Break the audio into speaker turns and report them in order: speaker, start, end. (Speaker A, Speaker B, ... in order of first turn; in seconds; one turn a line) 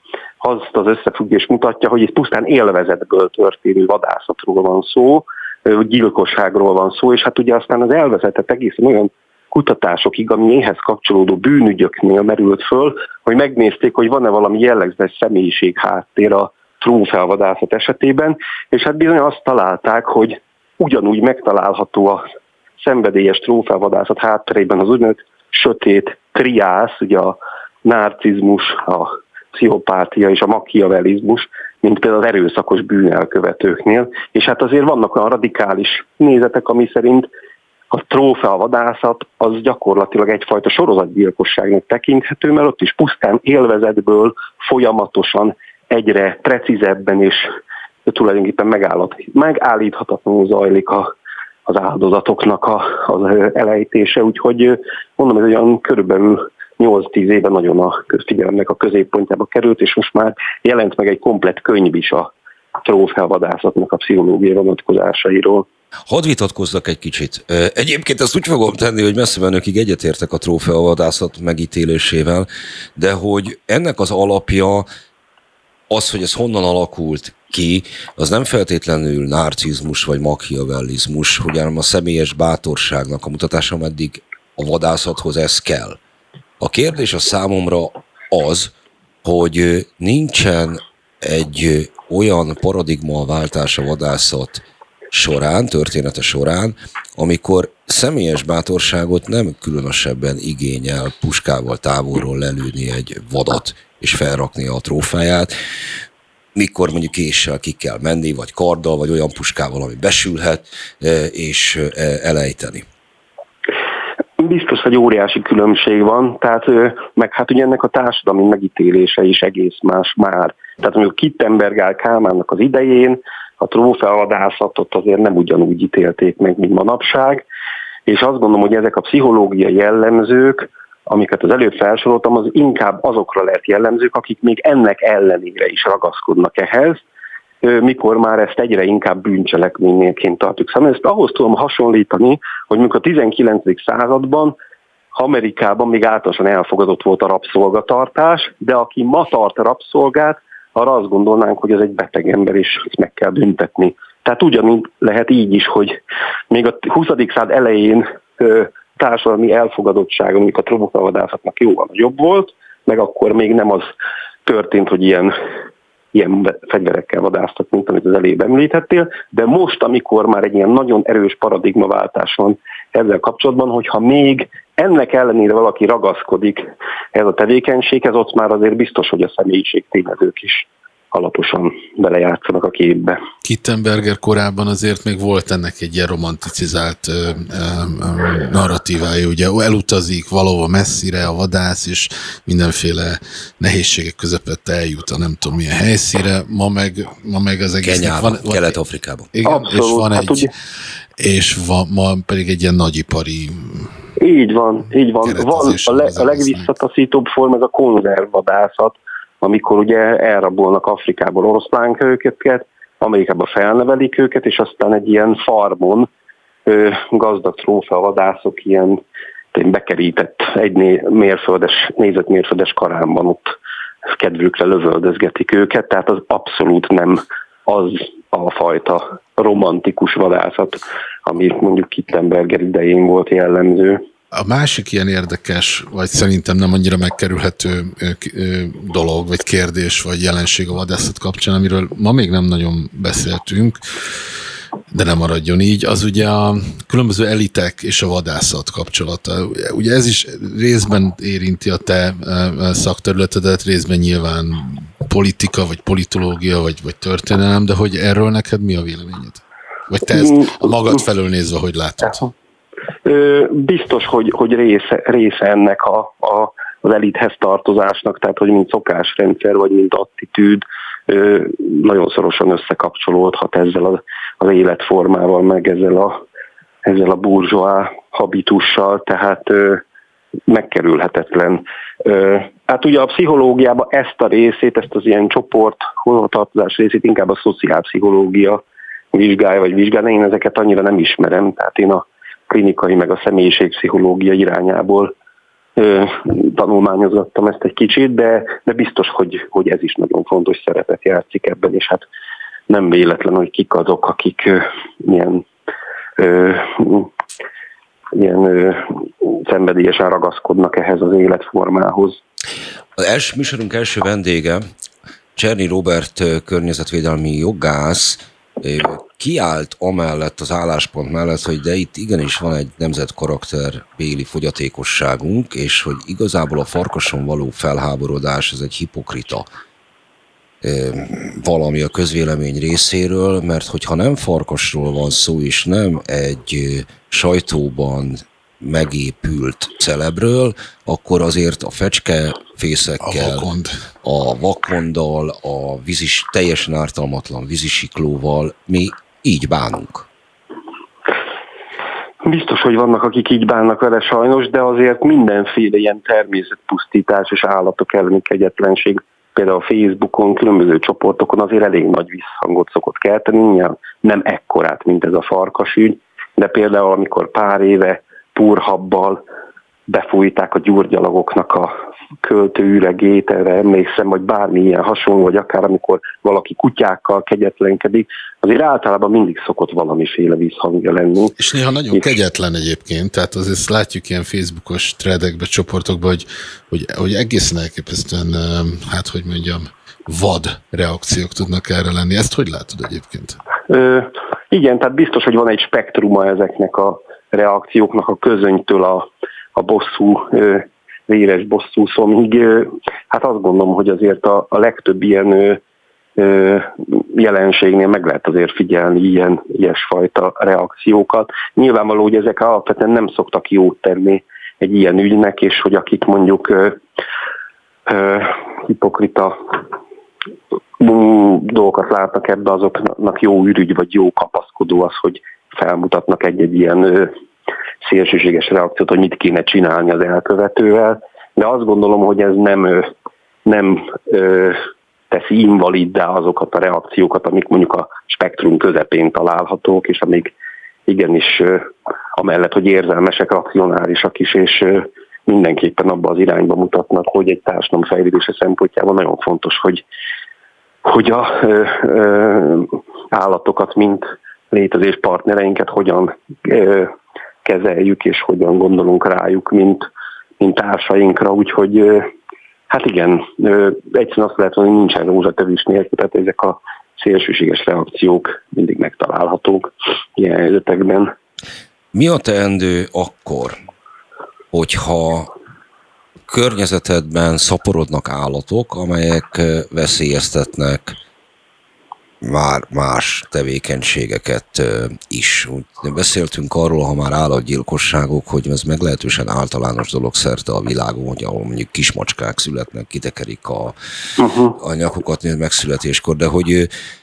Speaker A: 0.4-22.2
Speaker A: 22.8-37.3
Speaker A: 37.9-47.5
Speaker A: 48.0-51.1
Speaker A: 51.7-62.3
Speaker A: 62.8-65.7
Speaker B: 66.1-74.9
Speaker B: 75.9-86.0
Speaker B: 86.6-88.7
Speaker B: 89.2-105.5
Speaker B: 106.5-112.8
Speaker A: 114.4-127.4
Speaker A: 128.1-137.0
Speaker A: 137.6-144.6
Speaker A: 145.1-156.0
Speaker A: 156.5-163.9
Speaker A: 164.4-165.3
Speaker A: 166.1-183.2
Speaker C: 183.4-198.8
Speaker B: 197.8-199.3
Speaker C: 199.3-200.5
Speaker A: 199.4-200.5
Speaker C: 201.2-203.9
Speaker A: 204.2-216.1
Speaker C: 205.2-206.7
Speaker A: 216.7-219.0
Speaker A: 219.5-223.5
Speaker A: 224.1-234.0
Speaker C: 234.3-244.2
Speaker C: 244.9-262.3
Speaker A: 260.2-260.6
Speaker A: 263.0-276.2
Speaker A: 276.8-279.8
Speaker A: 280.5-288.6
Speaker A: 289.1-295.1
Speaker A: 295.8-302.0
Speaker A: 302.7-305.4
Speaker A: 306.2-307.1
Speaker A: 308.1-312.2
Speaker B: 313.0-314.6
Speaker B: 315.4-329.5
Speaker B: 330.6-343.4
Speaker C: 343.0-343.7
Speaker B: 344.0-350.1
Speaker A: 352.2-369.2
Speaker A: 369.9-381.3
Speaker C: 381.4-393.4
Speaker A: 393.7-405.6
Speaker A: 406.2-416.8
Speaker A: 417.9-419.4
Speaker A: 420.8-427.1
Speaker A: 427.8-432.9
Speaker A: 433.4-440.3
Speaker A: 440.9-449.8
Speaker A: 450.8-456.9
Speaker A: 457.4-459.9
Speaker A: 460.4-462.1
Speaker A: 462.7-471.1
Speaker B: 471.9-473.6
Speaker B: 474.5-475.3
Speaker B: 476.3-480.9
Speaker B: 482.2-493.7
Speaker A: 494.2-494.5
Speaker B: 494.6-496.7